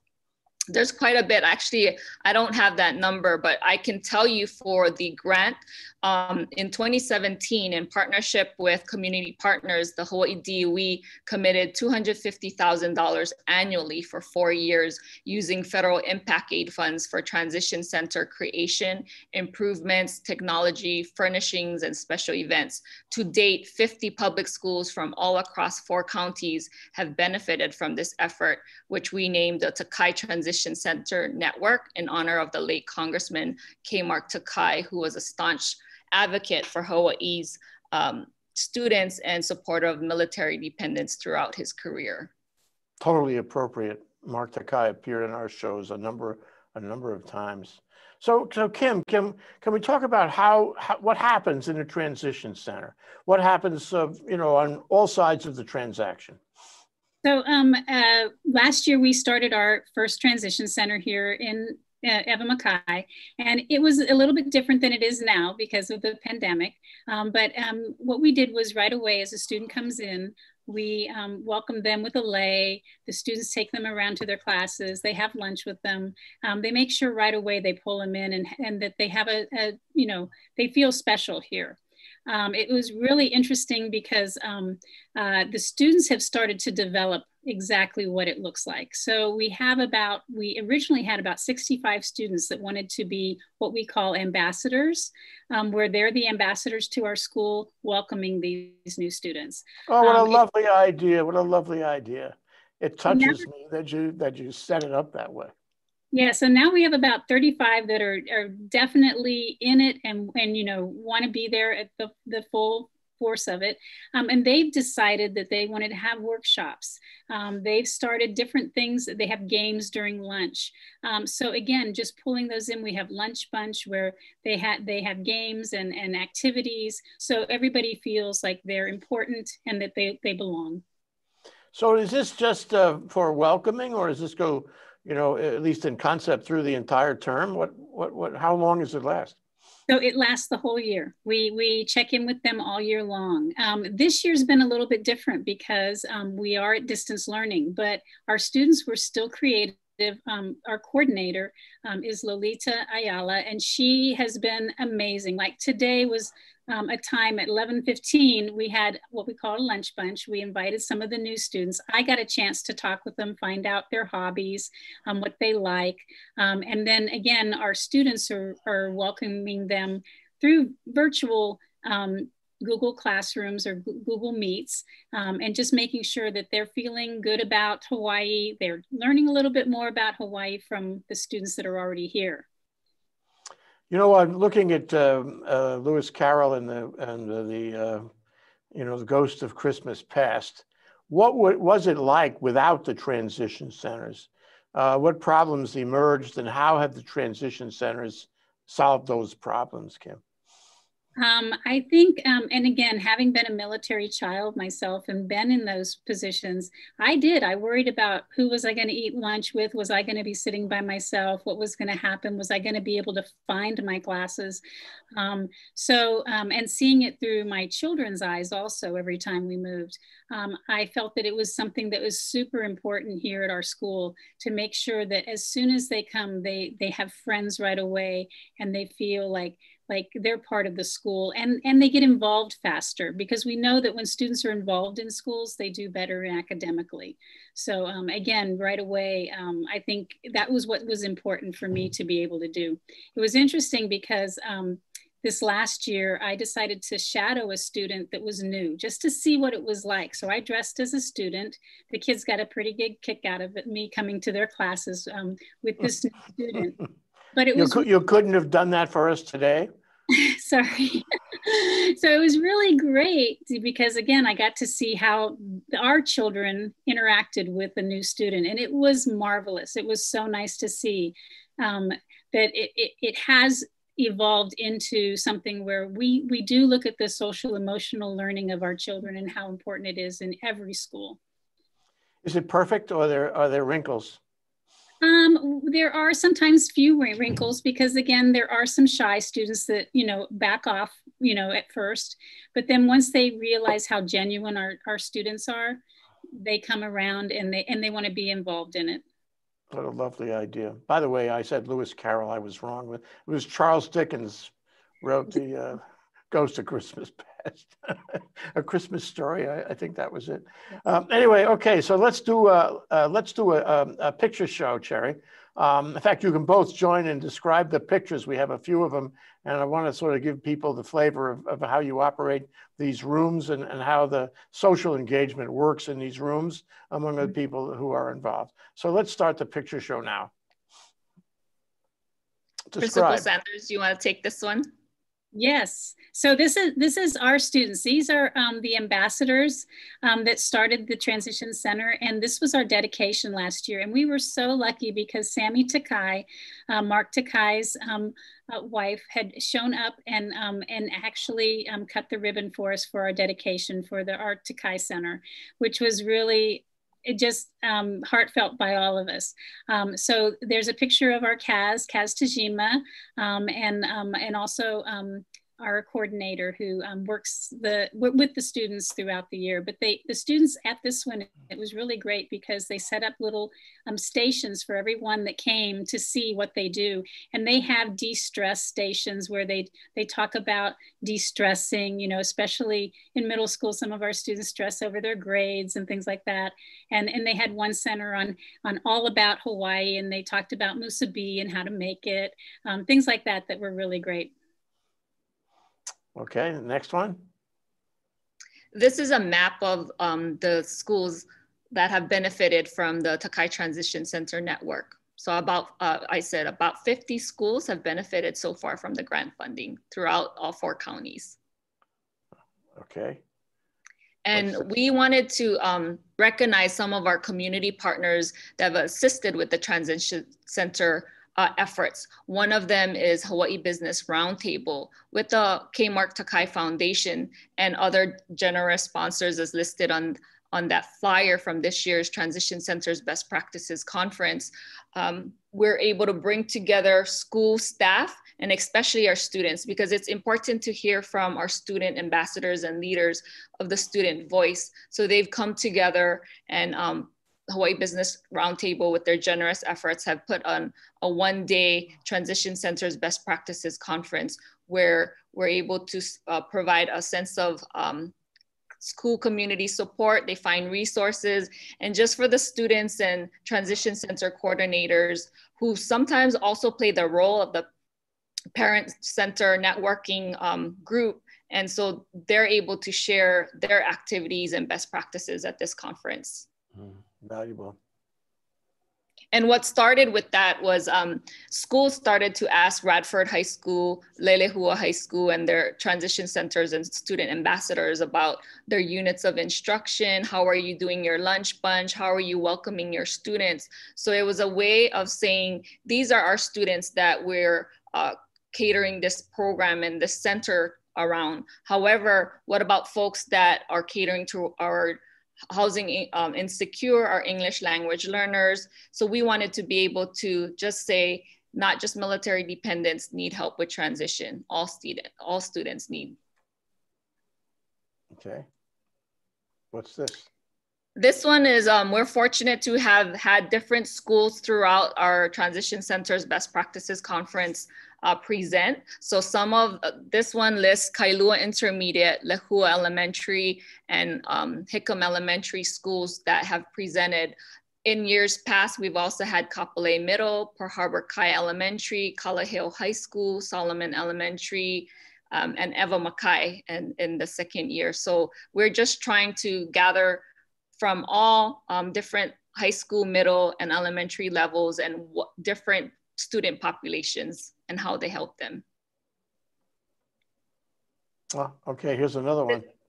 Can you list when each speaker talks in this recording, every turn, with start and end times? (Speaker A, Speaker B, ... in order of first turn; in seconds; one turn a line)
Speaker A: 0.7-42.3
Speaker B: 43.0-56.4
Speaker C: 57.2-100.4
Speaker B: 99.9-105.5
Speaker C: 103.1-103.5
Speaker C: 106.1-130.8
Speaker B: 131.7-139.4
Speaker C: 139.9-182.5
Speaker B: 183.9-188.1
Speaker B: 188.7-200.2
Speaker C: 201.2-214.6
Speaker C: 215.1-256.8
Speaker C: 257.3-257.9
Speaker B: 257.6-259.7
Speaker C: 260.1-281.2
Speaker B: 282.2-284.2
Speaker C: 285.0-295.8
Speaker C: 296.4-299.0
Speaker B: 299.7-330.3
Speaker B: 332.7-333.3
Speaker A: 332.8-334.7
Speaker C: 335.4-394.3
Speaker B: 396.1-397.3
Speaker A: 398.7-411.4
Speaker B: 412.8-413.2
Speaker A: 414.2-458.1
Speaker B: 414.4-414.6
Speaker A: 458.8-467.7
Speaker A: 468.5-476.5
Speaker B: 476.8-477.8
Speaker A: 479.3-516.2
Speaker B: 518.1-518.5
Speaker B: 519.7-520.3
Speaker A: 521.0-550.2
Speaker A: 550.8-558.6
Speaker B: 561.3-562.6